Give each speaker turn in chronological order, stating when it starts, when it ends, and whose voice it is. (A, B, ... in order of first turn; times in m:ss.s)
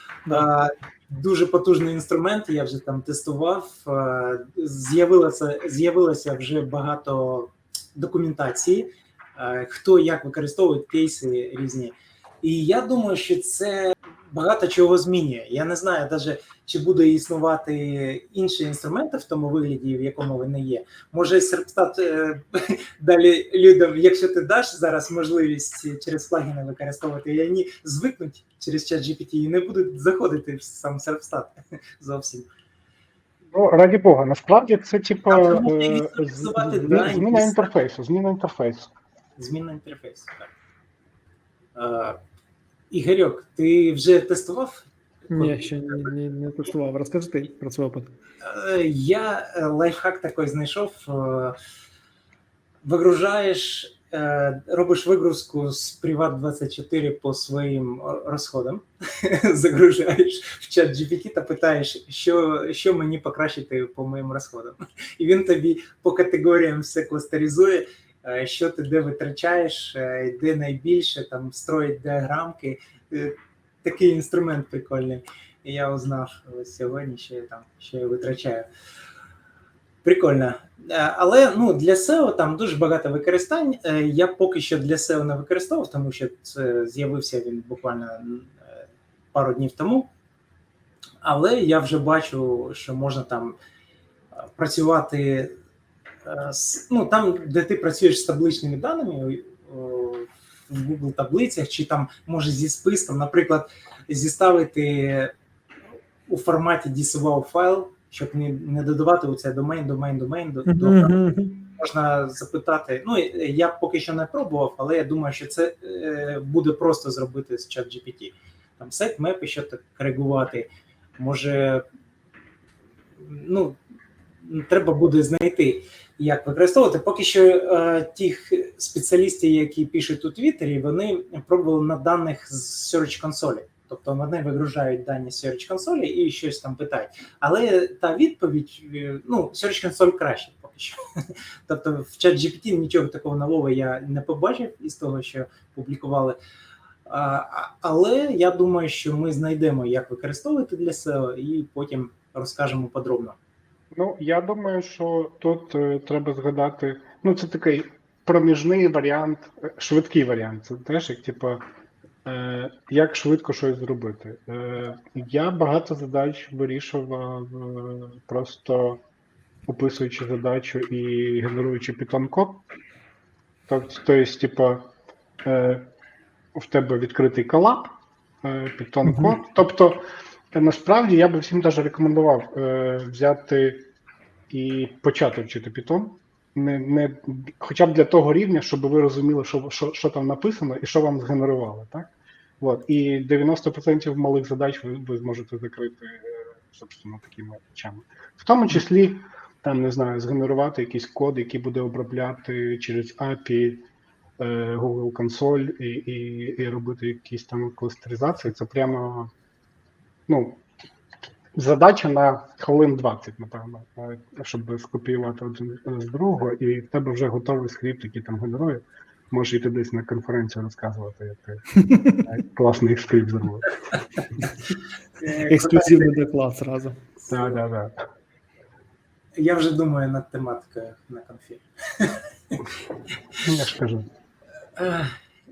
0:00.3-0:32.5 A
0:33.5-0:38.9 B
0:35.3-0:37.7 A
0:36.8-0:37.2 C
0:39.4-0:40.5 A
0:41.7-0:42.2 A
0:42.9-0:45.7 A
0:45.3-0:48.1 C
0:48.4-0:51.6 A
0:52.8-1:18.7 A
1:20.0-1:28.6 A
1:29.3-1:30.1 A
1:31.2-1:33.5 A
1:34.6-1:35.5 A
1:36.2-1:45.3 A
1:46.3-2:00.7 A
1:50.6-1:51.6 C
2:01.2-2:01.8 A
2:03.2-2:03.8 A
2:04.4-2:21.0 A
2:21.6-2:26.4 A
2:27.1-2:33.4 A
2:33.9-2:41.6 B
2:42.2-2:49.0 B
2:49.7-2:52.6 B
2:53.7-2:54.9 B
2:55.4-2:55.8 B
2:56.5-2:57.9 B
2:58.4-3:00.0 B
2:59.0-2:59.4 C
3:00.5-3:03.9 B
3:04.5-3:23.8 B
3:24.4-3:29.3 B
3:30.3-3:30.6 B
3:31.5-3:41.6 B
3:41.8-3:42.2 C
3:42.2-3:43.8 B
3:45.2-3:46.1 A
3:45.3-3:47.0 C
3:47.3-3:47.9 B
3:49.4-3:52.7 A
3:53.4-3:54.0 B
3:54.8-3:55.2 A